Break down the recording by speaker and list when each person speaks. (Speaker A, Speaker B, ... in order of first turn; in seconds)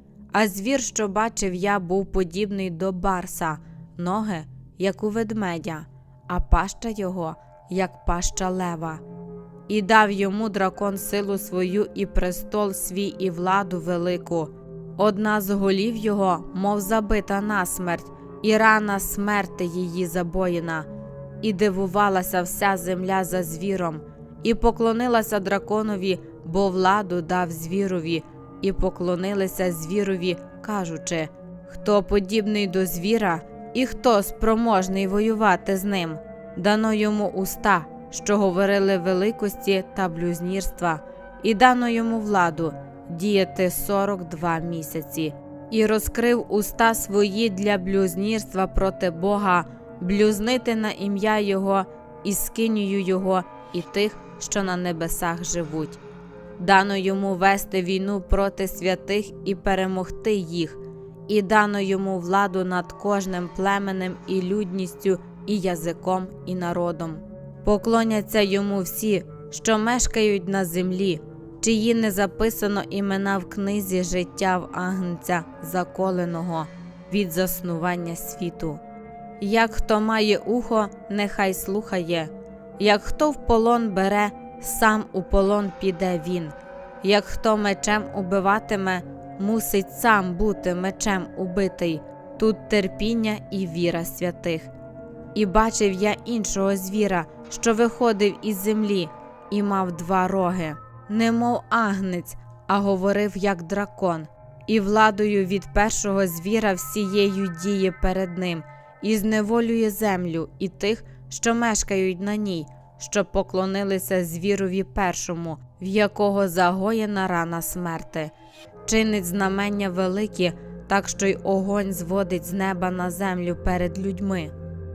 Speaker A: 0.3-9.0, 9.7-20.9, 21.4-56.0, 56.6-78.8, 79.4-94.7, 95.3-118.3, 118.9-124.5